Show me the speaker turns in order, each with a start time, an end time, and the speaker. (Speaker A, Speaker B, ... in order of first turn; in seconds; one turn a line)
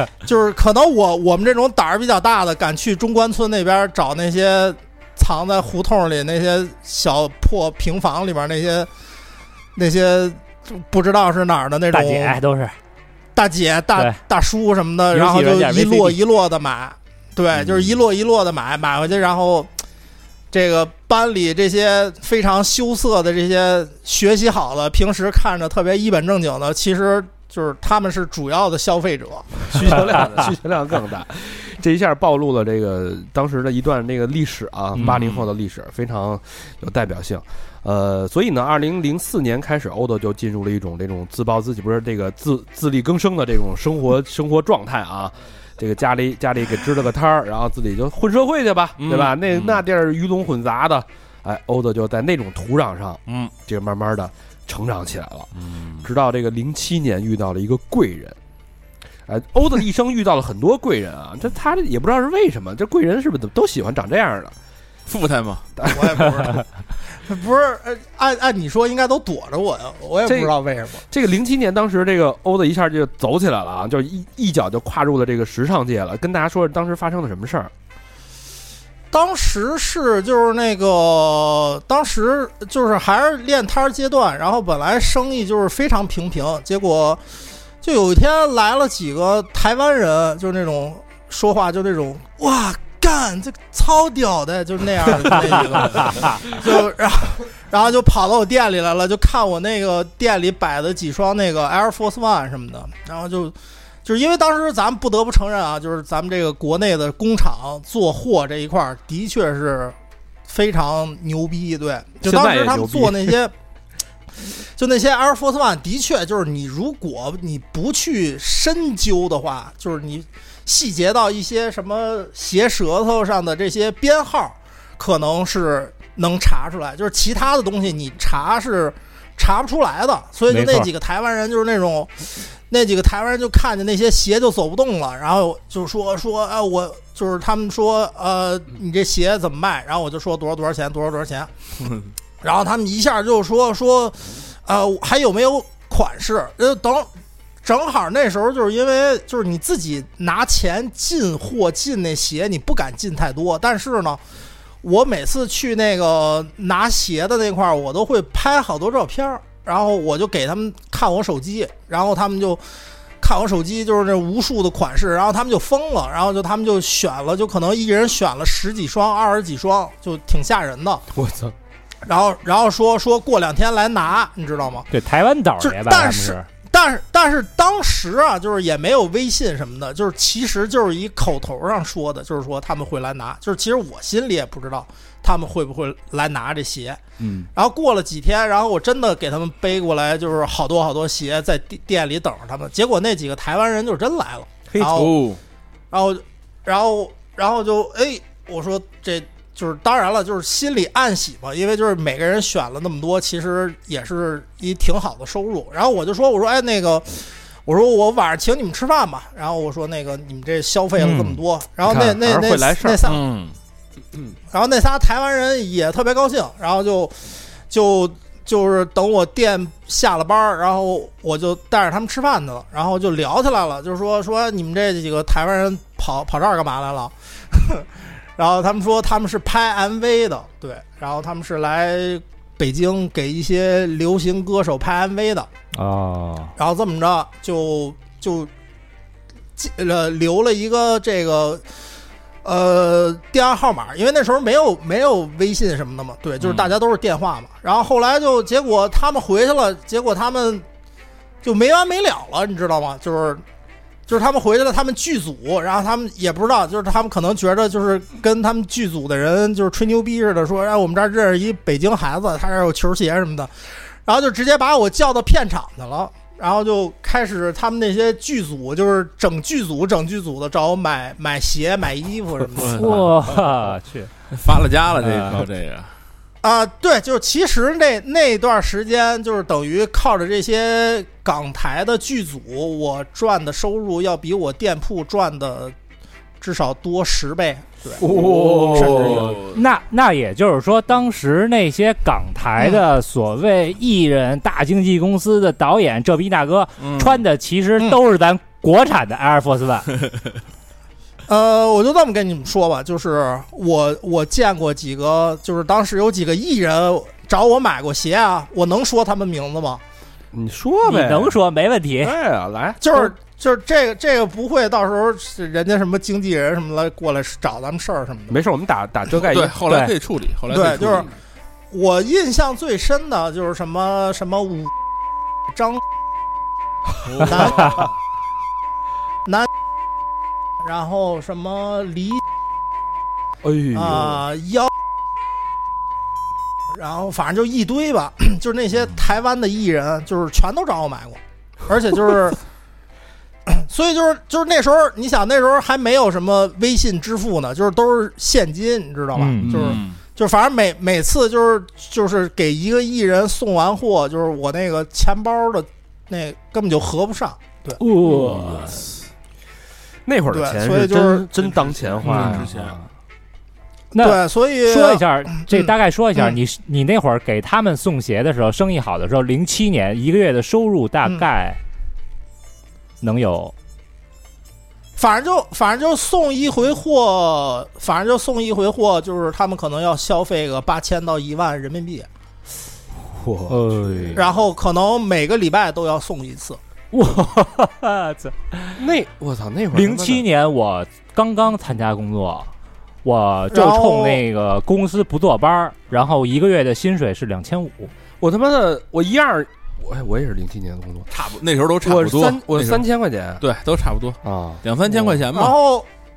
Speaker A: 0.2-8.9
Speaker A: 9.8-12.4
Speaker B: 11.9-12.8
Speaker A: 13.3-19.7
Speaker B: 15.1-16.2
Speaker A: 20.5-30.0
Speaker C: 29.7-58.4
Speaker D: 35.0-35.5
Speaker D: 49.0-49.8
Speaker D: 53.3-53.5
Speaker D: 55.5-56.1
Speaker C: 59.3-64.5
Speaker D: 65.1-65.7
Speaker C: 65.8-66.4
Speaker A: 65.9-71.0
Speaker C: 70.3-70.5
Speaker C: 71.1-77.7
Speaker A: 79.1-87.2
Speaker A: 87.8-110.0
Speaker B: 95.7-96.4
Speaker A: 110.5-113.5
Speaker C: 112.2-113.4
Speaker A: 114.8-141.5
Speaker B: 130.5-130.9
Speaker A: 142.4-147.1
Speaker A: 147.6-154.2
Speaker A: 154.8-162.6
Speaker A: 163.2-171.1
Speaker C: 171.2-171.5
Speaker A: 172.1-174.9
Speaker B: 174.9-176.5
Speaker A: 175.6-187.0
Speaker A: 187.6-195.2
Speaker D: 194.8-195.4
Speaker A: 195.9-213.2
Speaker B: 211.0-211.4
Speaker C: 211.8-213.1
Speaker D: 213.1-213.6
Speaker A: 214.5-235.5
Speaker B: 235.7-236.5
Speaker A: 236.6-238.5
Speaker A: 239.6-241.6
Speaker A: 242.4-250.7
Speaker D: 246.4-246.7
Speaker A: 251.4-253.4
Speaker A: 254.1-263.5
Speaker A: 264.1-272.9
Speaker D: 272.6-273.6
Speaker B: 272.8-274.1
Speaker D: 274.3-275.9
Speaker B: 275.0-275.4
Speaker A: 276.4-285.8
Speaker A: 286.4-288.0
Speaker D: 288.0-289.6
Speaker C: 288.1-288.6
Speaker A: 288.8-289.2
Speaker B: 288.8-299.9
Speaker D: 296.8-297.2
Speaker A: 301.3-309.8
Speaker C: 310.3-311.4
Speaker B: 310.8-312.2
Speaker C: 312.0-313.0
Speaker A: 312.8-318.4
Speaker C: 318.3-319.6
Speaker D: 319.2-321.1
Speaker B: 319.6-319.9
Speaker A: 320.5-321.1
Speaker A: 321.7-324.7
Speaker A: 325.5-325.8
Speaker D: 327.1-327.9
Speaker A: 327.3-327.9
Speaker B: 327.5-327.8
Speaker A: 330.6-332.2
Speaker C: 333.4-334.2
Speaker A: 333.7-334.7
Speaker A: 336.7-342.4
Speaker A: 343.5-357.8
Speaker B: 349.1-349.8
Speaker D: 349.5-350.0
Speaker B: 357.8-358.8
Speaker D: 358.1-358.8
Speaker C: 360.1-362.8
Speaker A: 360.3-361.3
Speaker D: 361.6-362.8
Speaker B: 363.9-371.6
Speaker A: 364.0-366.4
Speaker B: 373.0-373.5
Speaker A: 375.0-382.1
Speaker C: 383.1-384.2
Speaker B: 383.5-384.3
Speaker A: 384.1-386.6
Speaker B: 386.9-388.8
Speaker C: 388.8-390.2
Speaker B: 389.7-392.5
Speaker B: 393.0-397.9
Speaker A: 393.5-394.2
Speaker C: 398.2-401.1
Speaker D: 401.1-402.9
Speaker C: 401.8-403.4
Speaker D: 403.4-405.5
Speaker C: 404.2-405.2
Speaker A: 405.3-405.9